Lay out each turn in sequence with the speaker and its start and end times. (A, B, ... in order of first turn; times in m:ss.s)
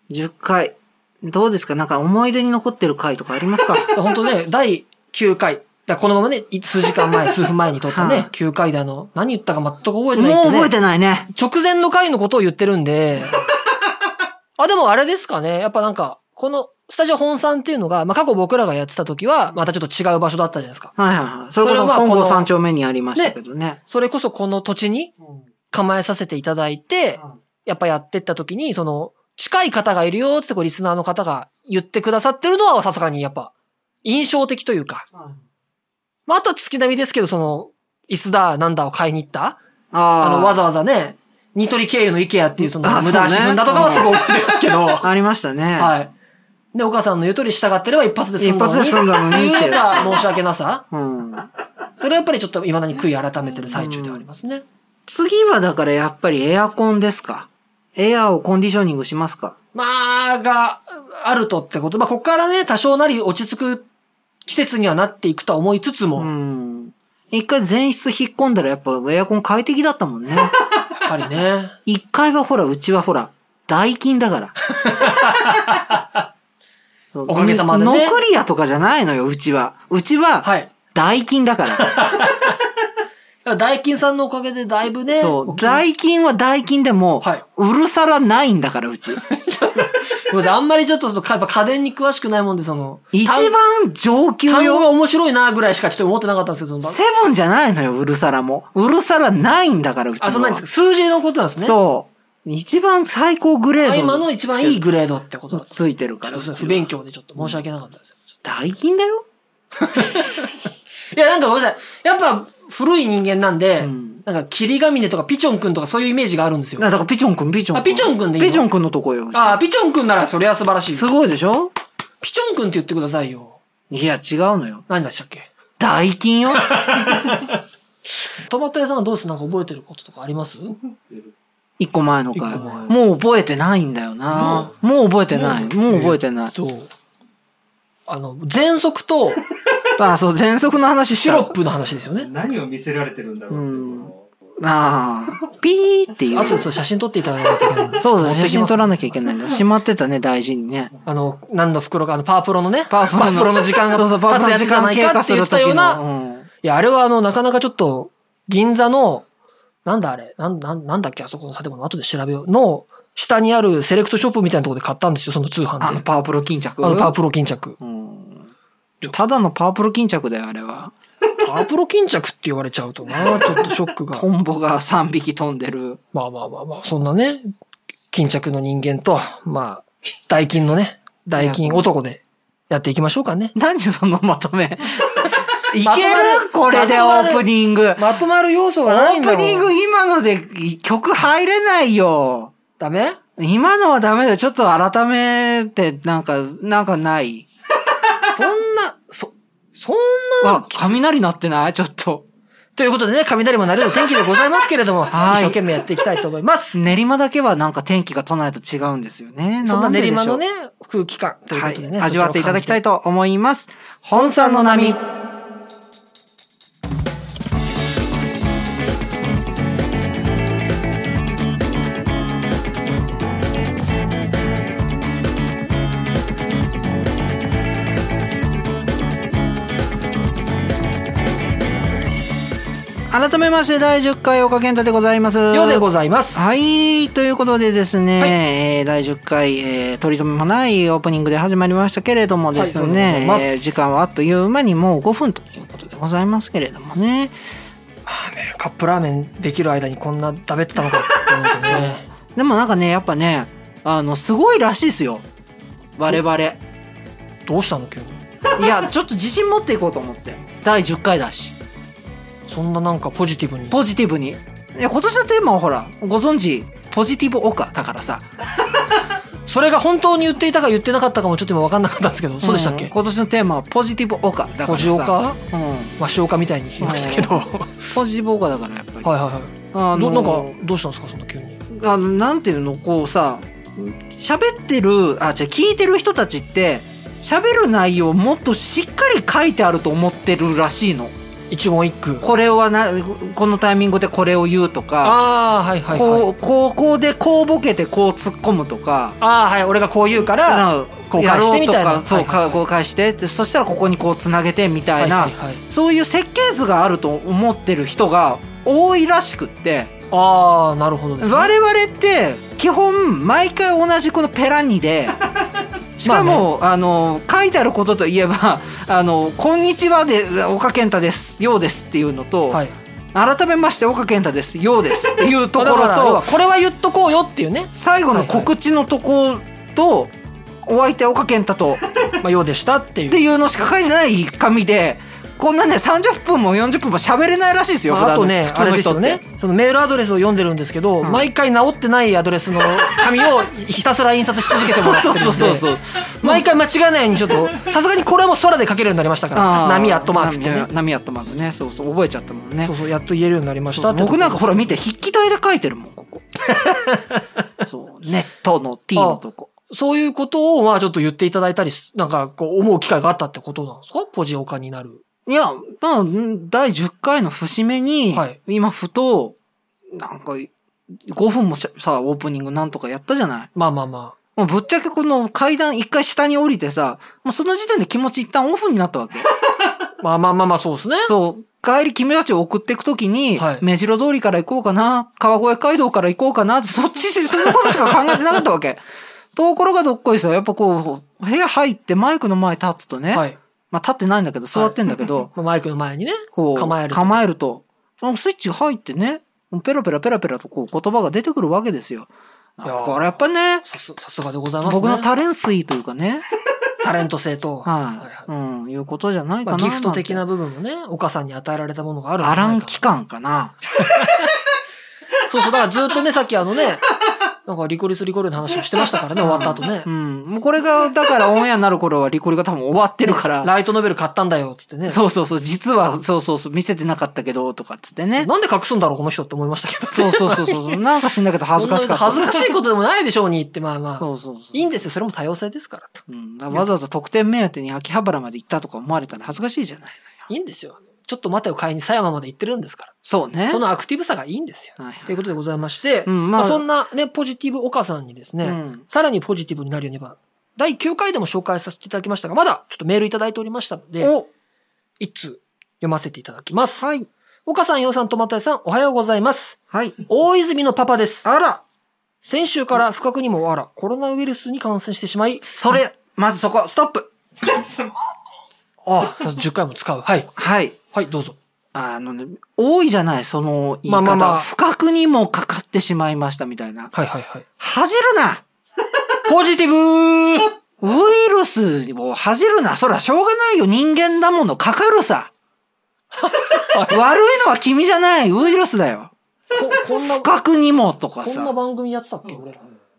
0:00.1-0:03.9 A
0:03.9-0:10.7 B
0:07.9-0:08.3 A
0:10.1-0:11.3 A
0:11.3-0:13.4 B
0:14.6-0:20.9 B
0:21.0-0:23.8 A
0:21.6-0:22.5 B
0:23.9-0:25.1 B
0:25.7-0:33.5 B
0:34.0-0:35.0 B
0:36.3-0:39.6 B
0:39.9-0:40.6 A
0:40.2-0:45.1 B
0:42.6-0:44.2 A
0:45.0-0:45.9 A
0:45.8-0:46.1 B
0:46.7-0:50.8 B
0:48.4-0:50.2 A
0:50.9-0:51.5 A
0:52.0-0:54.6 B
0:53.7-0:54.2 A
0:55.1-0:59.6 A
0:59.7-1:03.8 B
1:04.4-1:06.3 B
1:06.2-1:10.6 A
1:11.0-1:11.8 B
1:11.8-1:14.6 A
1:14.7-1:16.2 B
1:17.1-1:22.1 A
1:17.3-1:18.2 B
1:20.4-1:20.7 B
1:21.8-1:22.6 B
1:23.4-1:25.8 B
1:25.2-1:29.2 A
1:29.3-1:33.6 B
1:33.1-1:34.9 A
1:34.4-1:37.0 B
1:36.8-1:40.6 A
1:40.2-1:41.8 B
1:41.6-1:44.8 A
1:43.8-1:48.3 B
1:45.5-1:47.6 A
1:48.4-1:49.2 A
1:49.8-1:56.9 B
1:53.8-1:54.2 A
1:56.8-1:59.6 A
1:57.7-1:58.7 B
1:59.3-2:01.1 B
2:00.9-2:01.7 A
2:02.2-2:03.6 B
2:03.9-2:04.8 A
2:04.9-2:05.5 B
2:05.8-2:07.1 A
2:06.6-2:07.6 B
2:08.2-2:10.8 B
2:11.8-2:16.5 A
2:12.3-2:12.9 B
2:12.5-2:12.9 C
2:14.4-2:14.7 C
2:15.5-2:16.9 B
2:18.1-2:19.4 B
2:20.0-2:21.5 A
2:21.2-2:22.3 B
2:22.2-2:24.3 C
2:23.5-2:26.6 A
2:26.3-2:29.5 B
2:28.0-2:30.9 A
2:31.1-2:36.0 B
2:32.9-2:36.5 A
2:36.6-2:39.3 B
2:39.8-2:46.0 B
2:45.8-2:47.2 A
2:46.8-2:47.8 B
2:47.8-2:48.5 A
2:49.0-2:50.9 A
2:51.4-2:54.3 B
2:53.3-2:56.0 A
2:56.1-2:57.5 B
2:58.1-3:03.6 B
3:01.4-3:01.9 A
3:03.6-3:08.0 A
3:05.8-3:09.7 B
3:08.8-3:12.5 A
3:12.8-3:13.2 B
3:13.4-3:17.5 A
3:18.3-3:21.0 B
3:20.4-3:22.2 A
3:22.8-3:26.8 B
3:25.1-3:25.6 A
3:26.7-3:30.4 A
3:29.6-3:32.8 B
3:31.5-3:35.0 A
3:34.2-3:35.0 B
3:53.1-4:07.3 A
3:55.5-3:56.5 B
4:02.5-4:03.8 B
4:08.1-4:12.1 B
4:11.7-4:15.2 A
4:16.0-4:16.6 A
4:17.4-4:18.2 B
4:18.5-4:21.6 A
4:22.5-4:23.8 B
4:23.7-4:28.2 A
4:29.4-4:32.9 B
4:32.4-4:36.0 A
4:34.6-4:35.4 B
4:36.0-4:37.9 B
4:36.8-4:39.1 A
4:39.0-4:41.6 B
4:39.7-4:40.6 A
4:41.7-4:51.1 A
4:51.5-4:52.2 B
4:52.2-4:55.2 A
4:55.0-4:56.3 B
4:55.9-4:59.2 A
4:59.2-5:02.6 B
5:00.3-5:09.9 A
5:05.0-5:05.6 B
5:10.1-5:11.5 B
5:11.2-5:15.2 A
5:16.0-5:22.6 A
5:16.0-5:16.4 B
5:23.1-5:26.3 A
5:25.5-5:28.5 B
5:27.7-5:30.1 A
5:30.6-5:31.9 A
5:32.1-5:33.2 B
5:33.1-5:39.2 A
5:37.9-5:45.7 B
5:41.0-5:41.3 A
5:44.5-5:46.5 A
5:46.2-5:50.7 B
5:49.3-5:52.8 A
5:52.6-5:54.6 B
5:53.6-5:56.2 A
5:56.5-5:57.2 B
5:57.6-5:59.5 A
5:58.9-6:05.0 B
6:05.3-6:09.4 A
6:09.9-6:13.5 A
6:13.5-6:14.1 B
6:14.4-6:19.3 A
6:20.0-6:21.1 B
6:21.1-6:28.8 A
6:23.4-6:23.6 B
6:27.4-6:28.1 B
6:29.3-6:35.3 A
6:33.1-6:33.4 B
6:35.3-6:37.2 B
6:36.3-6:43.6 A
6:42.6-6:43.0 B
6:43.6-6:45.1 B
6:44.6-6:46.2 A
6:46.8-6:48.3 B
6:47.6-6:50.2 A
6:49.4-6:52.8 B
6:52.2-6:53.6 A
6:53.8-6:54.3 B
6:55.2-6:56.8 B
6:57.4-6:59.9 B
6:59.2-7:03.5 A
7:03.0-7:05.0 B
7:04.9-7:08.3 A
7:08.2-7:10.8 B
7:09.9-7:12.5 A
7:11.6-7:16.7 B
7:14.0-7:14.9 A
7:16.1-7:20.2 A
7:20.3-7:22.9 B
7:23.0-7:23.6 A
7:23.5-7:34.1 B
7:24.8-7:25.2 A
7:26.1-7:26.6 A
7:28.4-7:28.8 A
7:34.0-7:34.3 A
7:35.0-7:36.8 B
7:36.8-7:37.1 A
7:37.4-7:41.2 B
7:39.7-7:40.0 A
7:41.2-7:41.6 A
7:42.2-7:45.7 B
7:45.6-7:47.9 A
7:48.8-7:50.3 B
7:50.4-7:50.8 A
7:50.9-7:51.4 B
7:51.7-7:56.9 A
7:53.8-7:54.5 B
7:56.9-7:57.4 B
7:57.6-7:58.4 A
7:59.2-8:00.5 B
8:00.8-8:05.3 A
8:06.1-8:07.0 B
8:06.8-8:09.1 A
8:09.5-8:10.3 B
8:10.0-8:11.5 A
8:11.2-8:12.6 B
8:12.2-8:12.8 C